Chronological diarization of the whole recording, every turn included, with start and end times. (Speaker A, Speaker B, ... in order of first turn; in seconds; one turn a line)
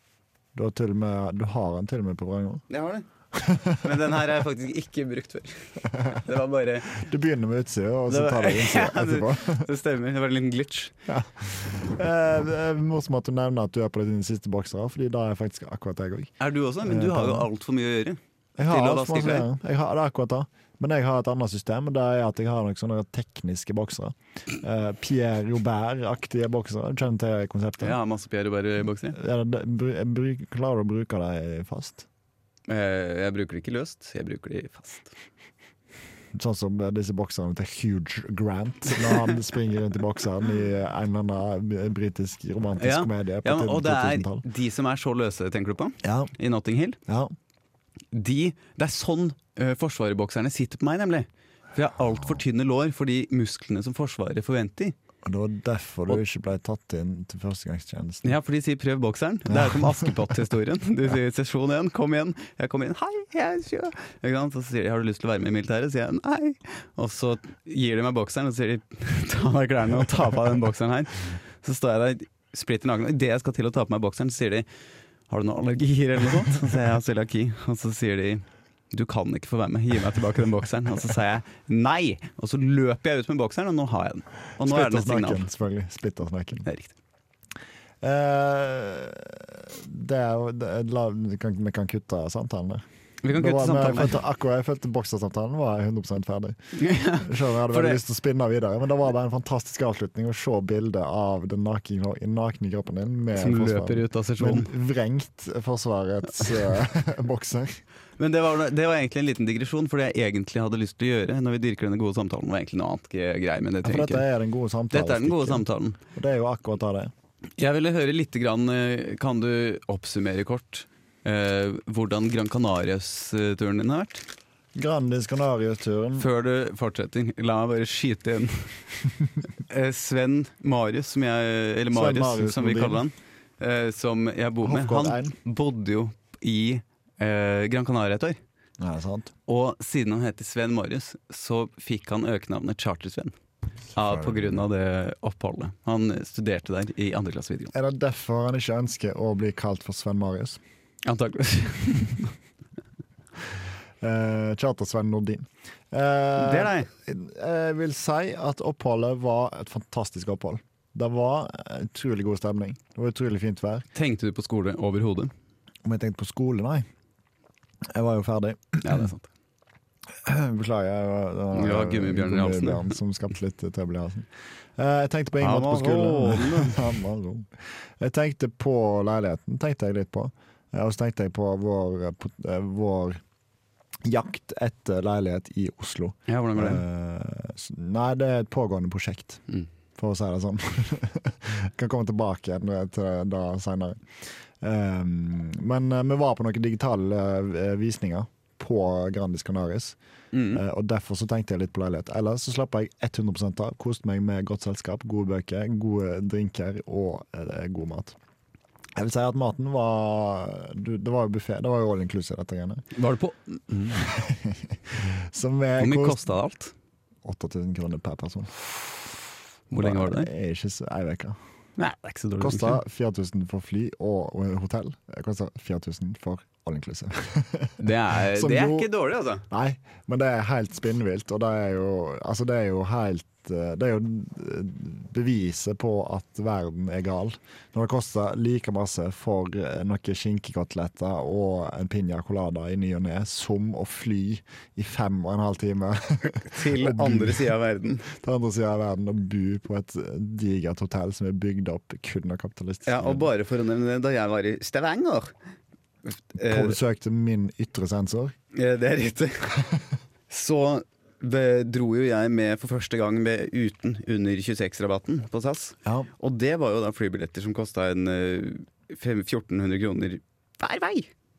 Speaker A: 0.6-2.6
Speaker B: 2.7-3.1
Speaker A: 3.3-3.8
Speaker B: 3.8-7.0
Speaker A: 6.9-9.7
Speaker B: 8.1-10.9
Speaker A: 11.1-16.3
Speaker B: 16.4-19.5
Speaker A: 16.8-17.5
Speaker A: 18.6-28.0
Speaker B: 27.8-29.2
Speaker A: 29.1-32.0
Speaker B: 32.7-35.1
Speaker A: 36.4-44.5
Speaker B: 42.8-47.0
Speaker A: 46.0-46.3
Speaker A: 47.1-47.3
Speaker B: 48.1-55.0
Speaker A: 55.2-58.3
Speaker B: 58.2-74.7
Speaker A: 59.5-60.2
Speaker B: 75.3-85.5
Speaker A: 84.6-86.7
Speaker B: 86.7-87.0
Speaker A: 88.0-96.6
Speaker B: 93.2-94.2
Speaker B: 96.8-98.0
Speaker A: 97.2-107.8
Speaker B: 103.3-104.7
Speaker B: 108.2-114.3
Speaker A: 113.8-117.1
Speaker B: 114.9-116.0
Speaker B: 117.6-124.2
Speaker A: 124.8-126.3
Speaker B: 126.2-128.7
Speaker B: 129.7-138.4
Speaker A: 131.9-133.0
Speaker A: 134.6-135.3
Speaker A: 138.8-139.3
Speaker B: 139.5-143.3
Speaker B: 143.9-147.7
Speaker A: 144.0-144.6
Speaker A: 147.7-150.6
Speaker B: 151.0-152.3
Speaker A: 154.0-163.9
Speaker B: 156.4-156.9
Speaker B: 163.9-165.3
Speaker A: 165.8-166.9
Speaker A: 167.9-169.1
Speaker B: 168.8-169.3
Speaker A: 170.2-183.2
Speaker B: 171.5-172.9
Speaker B: 175.4-177.0
Speaker A: 184.1-189.4
Speaker B: 186.3-186.8
Speaker A: 190.0-194.1
Speaker A: 194.6-200.0
Speaker B: 200.3-200.6
Speaker A: 200.5-208.2
Speaker A: 209.0-212.8
Speaker B: 212.9-214.1
Speaker A: 213.9-216.2
Speaker B: 215.8-216.7
Speaker A: 217.2-218.6
Speaker B: 219.7-220.3
Speaker A: 219.8-221.4
Speaker B: 221.8-222.8
Speaker A: 222.4-228.9
Speaker B: 227.8-229.4
Speaker A: 229.5-247.6
Speaker B: 246.4-248.1
Speaker A: 248.1-253.3
Speaker B: 252.9-255.3
Speaker B: 256.1-256.8
Speaker A: 256.4-258.4
Speaker B: 258.5-259.6
Speaker B: 260.3-271.1